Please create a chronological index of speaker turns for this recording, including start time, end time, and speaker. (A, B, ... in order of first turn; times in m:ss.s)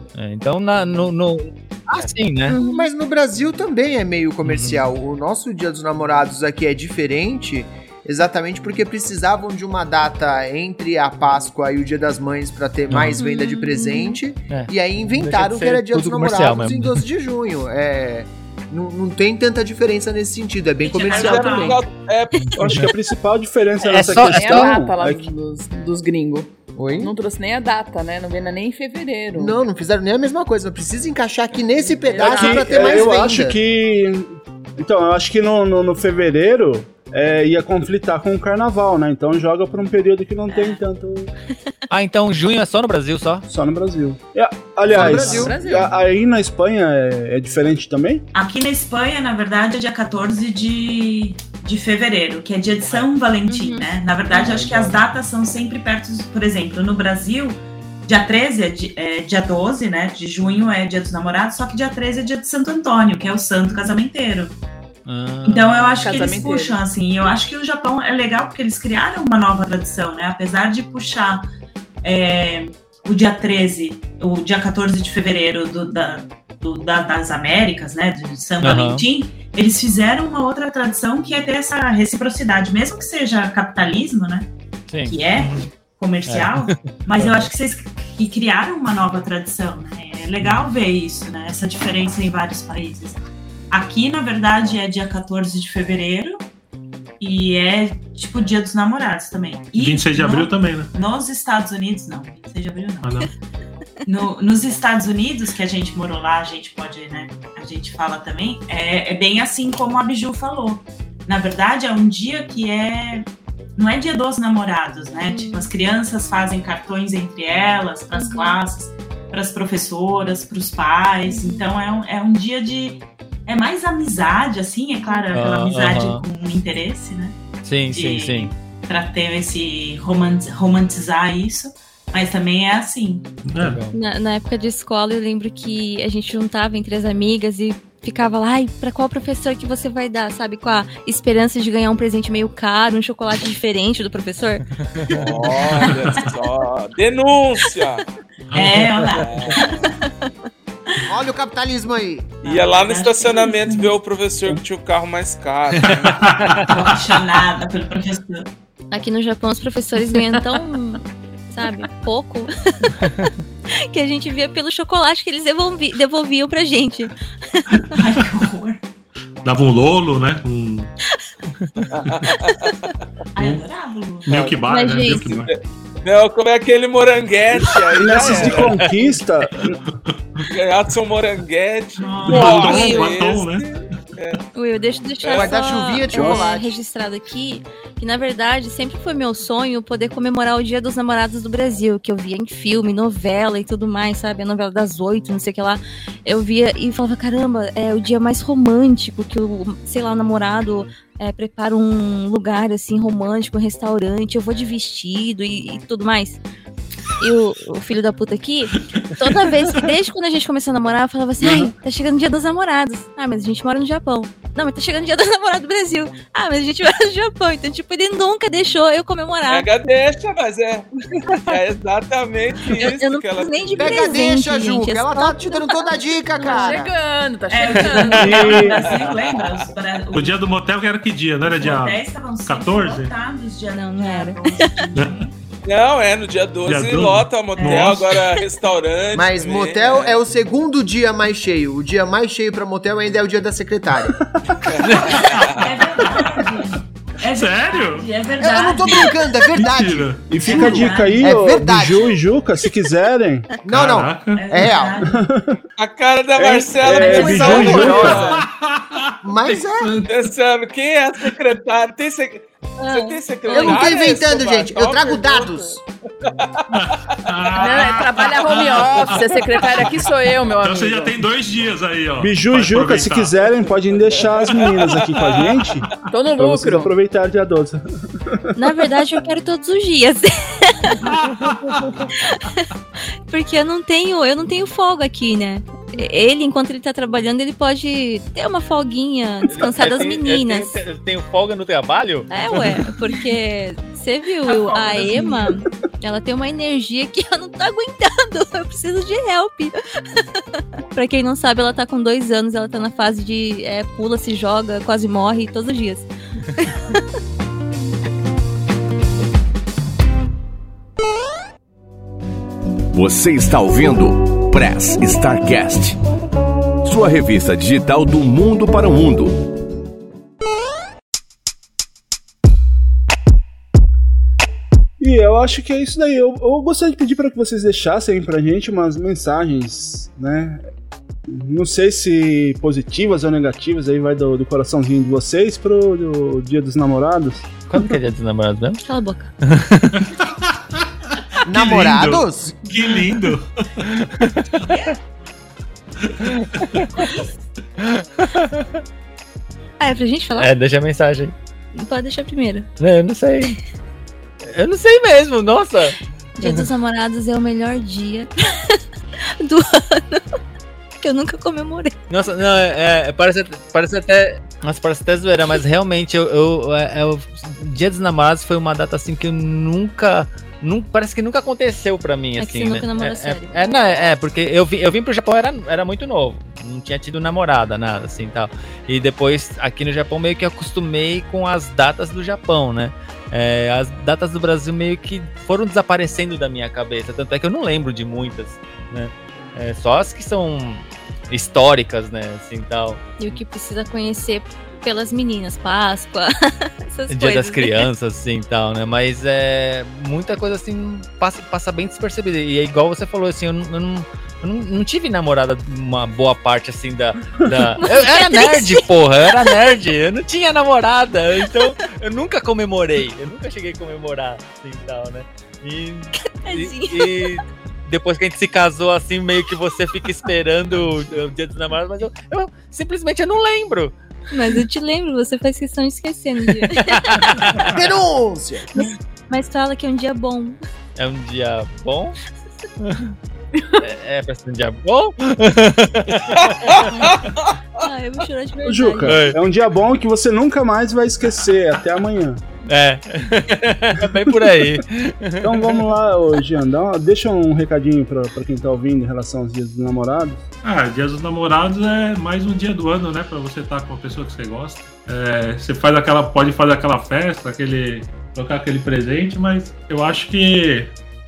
0:00.1-0:02.6 A
0:01.9-0:21.8 B
0:02.5-0:02.9 C
0:04.4-0:04.8 A
0:12.9-0:13.2 A
0:13.1-0:14.2 C
0:14.5-0:17.0 A
0:20.8-0:21.8 D
0:21.1-0:22.4 E
0:22.6-0:25.3 F
0:22.6-0:22.9 A
0:23.8-0:24.7 A
0:24.1-0:29.6 G
0:26.8-0:27.1 B
0:29.3-0:33.6 B
0:31.8-0:33.3 G
0:32.2-0:41.3 F
0:41.9-0:43.4 A
0:43.5-0:48.2 F
0:44.9-0:45.6 B
0:44.9-0:46.0 G
0:48.3-1:04.6 D
0:53.5-0:53.8 C
1:05.1-1:06.1 A
1:05.4-1:11.5 D
1:06.0-1:06.8 G
1:12.0-1:24.5 D
1:18.6-1:19.0 A
1:24.9-1:25.2 A
1:25.0-1:36.4 D
1:25.4-1:25.6 H
1:26.3-1:27.5 A
1:37.2-1:43.1 D
1:39.8-1:40.9 H
1:43.0-1:43.3 H
1:44.0-2:07.4 D
1:55.3-1:55.7 C
1:58.1-1:58.6 C
2:01.2-2:01.7 C
2:05.0-2:05.3 C
2:05.3-2:06.2 A
2:07.6-2:08.5 A
2:07.9-2:13.3 D
2:13.4-2:13.8 H
2:13.6-2:14.0 A
2:13.9-2:24.6 C
2:24.9-2:25.1 A
2:25.1-2:28.0 E
2:25.5-2:26.3 D
2:28.5-2:29.2 H
2:28.5-2:29.8 D
2:29.2-2:29.8 E
2:31.1-2:32.4 B
2:32.4-2:34.0 D
2:32.4-2:36.3 E
2:35.9-2:36.6 A
2:36.2-2:36.9 H
2:36.6-2:38.5 D
2:38.9-2:43.3 C
2:43.0-2:43.3 A
2:43.9-2:47.8 C
2:47.9-2:48.8 D
2:49.4-2:50.9 H
2:51.9-2:52.7 E
2:53.4-2:54.5 D
2:53.4-2:53.6 H
2:54.2-2:55.5 H
2:54.7-2:55.2 C
2:55.2-2:58.8 E
2:58.0-2:59.8 F
2:58.7-2:59.1 A
3:00.5-3:04.4 E
3:02.0-3:03.2 D
3:02.2-3:03.7 H
3:04.5-3:26.4 C
3:05.2-3:05.6 E
3:05.3-3:06.8 B
3:06.1-3:06.4 F
3:27.2-3:39.7 C
3:31.4-3:31.7 F
3:39.5-3:44.1 E
3:42.7-3:46.8 C
3:43.8-3:46.9 B
3:46.4-3:48.4 G
3:47.5-3:50.4 D
3:48.1-3:48.8 F
3:48.8-3:49.6 E
3:50.1-3:53.1 H
3:51.4-3:55.3 D
3:53.7-3:54.8 C
3:54.9-3:55.2 H
3:55.6-4:00.2 E
3:56.6-3:58.2 H
3:57.6-3:58.0 D
3:59.1-4:04.2 B
4:04.7-4:05.6 E
4:05.0-4:06.2 H
4:05.5-4:09.2 D
4:07.3-4:08.1 H
4:08.4-4:12.1 B
4:09.5-4:10.5 H
4:10.3-4:13.5 F
4:10.3-4:11.4 D
4:13.6-4:15.0 B
4:13.7-4:14.4 H
4:14.3-4:15.2 D
4:15.0-4:15.6 F
4:15.8-4:18.4 E
4:16.4-4:18.3 F
4:16.9-4:18.2 D
4:17.1-4:18.4 B
4:18.3-4:19.1 H
4:19.2-4:20.0 B
4:19.8-4:20.0 H
4:20.0-4:25.7 E
4:22.8-4:23.9 C
4:23.5-4:25.8 B
4:26.2-4:27.2 E
4:26.7-4:30.0 H
4:27.6-4:31.2 G
4:30.6-4:33.4 H
4:32.2-4:38.7 F
4:34.1-4:35.6 E
4:36.1-4:36.9 G
4:38.6-4:41.0 C
4:41.0-4:41.9 H
4:42.2-4:42.7 C
4:43.3-4:50.8 C
4:49.5-4:52.3 A
4:52.3-5:07.0 C
4:54.4-4:55.6 D
5:12.9-5:16.0 I
5:16.8-5:19.5 I
5:25.0-5:30.6 F
5:31.3-5:37.5 F
5:37.7-5:38.8 A
5:38.8-5:39.3 C
5:39.4-5:40.1 A
5:41.4-5:42.6 B
5:41.5-5:43.4 H
5:44.0-5:44.5 A
5:44.7-5:45.0 D
5:46.3-5:46.8 A
5:46.9-5:47.3 D
5:47.8-5:48.7 A
5:49.8-5:50.5 C
5:50.4-5:51.3 A
5:51.7-5:52.7 C
5:52.8-5:53.6 A
5:54.4-5:56.7 A
5:56.4-6:00.4 C
6:01.0-6:01.9 C
6:02.1-6:33.4 A
6:12.4-6:14.1 C
6:33.2-6:36.3 C
6:36.8-6:37.9 C
6:37.1-7:03.9 A
6:47.7-6:49.6 C
6:56.2-6:57.4 C
7:04.3-7:07.6 C
7:06.8-7:07.7 A
7:07.6-7:08.6 B
7:08.7-7:10.6 C
7:11.0-7:12.2 A
7:12.8-7:13.1 A
7:13.8-7:17.1 A
7:16.3-7:17.5 E
7:17.8-7:19.3 C
7:18.6-7:22.4 F
7:19.0-7:19.4 A
7:22.7-7:25.8 A
7:25.4-7:30.4 F
7:30.6-7:40.9 H